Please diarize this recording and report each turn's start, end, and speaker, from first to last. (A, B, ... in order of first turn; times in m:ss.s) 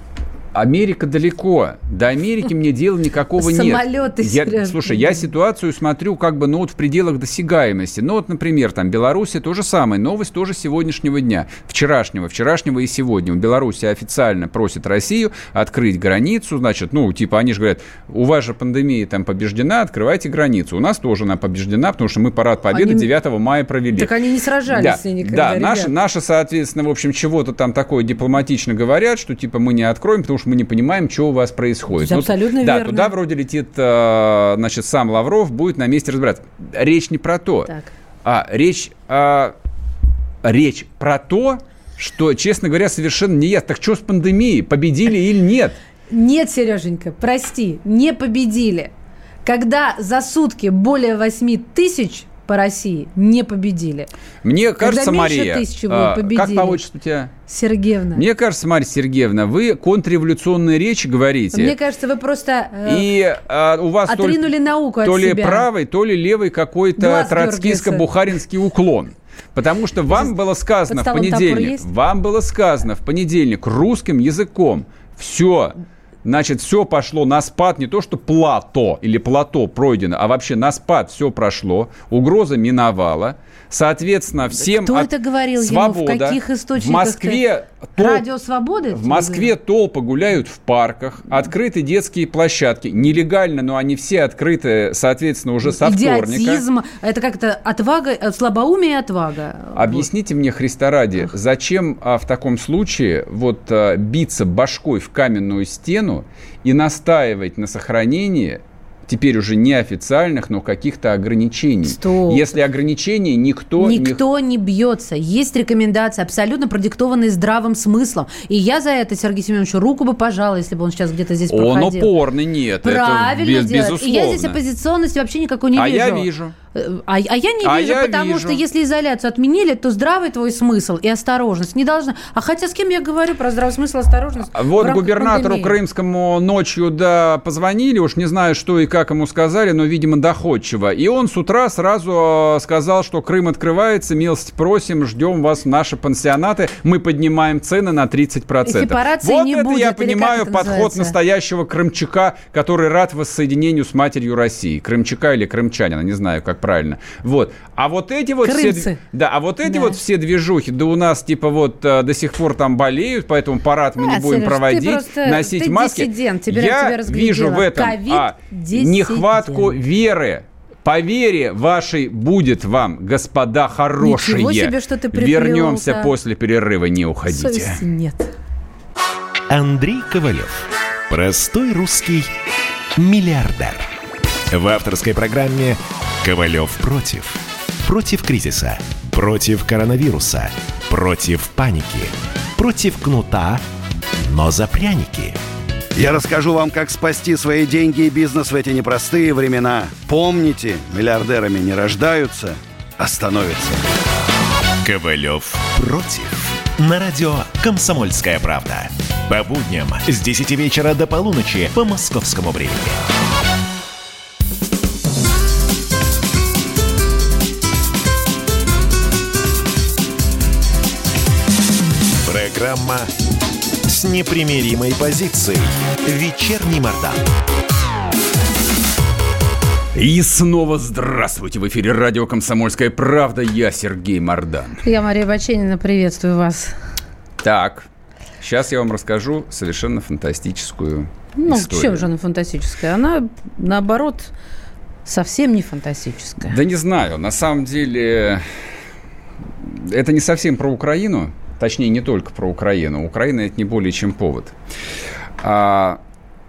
0:00.5-0:24.1 A
0:03.4-0:05.3 B
0:22.7-0:23.1 B
0:24.0-0:25.9 B
0:24.7-0:37.7 A
0:31.9-0:33.1 B
0:38.2-0:39.5 A
0:40.4-0:45.8 A
0:46.1-0:48.9 B
0:49.4-0:54.1 B
0:54.4-0:57.3 A
0:54.8-0:56.8 B
0:57.5-0:58.2 B
0:58.1-1:01.7 A
1:01.5-1:03.1 B
1:02.8-1:04.4 A
1:04.1-1:05.7 B
1:05.0-1:28.2 A
1:07.0-1:08.0 B
1:10.9-1:11.8 B
1:24.6-1:27.4 B
1:28.0-1:29.5 B
1:28.9-1:36.6 A
1:35.6-1:40.1 B
1:39.7-1:54.2 A
1:51.9-1:52.4 B
1:53.8-2:02.1 B
2:01.5-2:04.6 A
2:02.8-2:15.7 B
2:05.7-2:06.5 A
2:07.6-2:08.6 A
2:14.5-2:57.8 A
2:28.6-2:31.1 B
2:38.4-2:39.0 B
2:39.6-2:40.0 B
2:44.0-2:49.8 B
2:54.0-2:56.1 B
2:57.3-2:58.3 B
2:59.5-3:02.3 C
3:03.0-3:03.9 C
3:04.5-3:13.6 C
3:14.2-3:15.4 C
3:16.0-3:23.8 D
3:24.8-3:33.0 C
3:42.2-3:43.1 C
3:43.8-3:47.2 C
3:49.9-3:54.8 A
3:54.8-3:56.7 B
3:57.4-3:57.9 A
3:58.4-4:02.1 A
4:01.4-4:04.3 B
4:05.0-4:06.5 B
4:06.4-4:08.4 A
4:09.7-4:14.5 A
4:15.4-4:16.0 A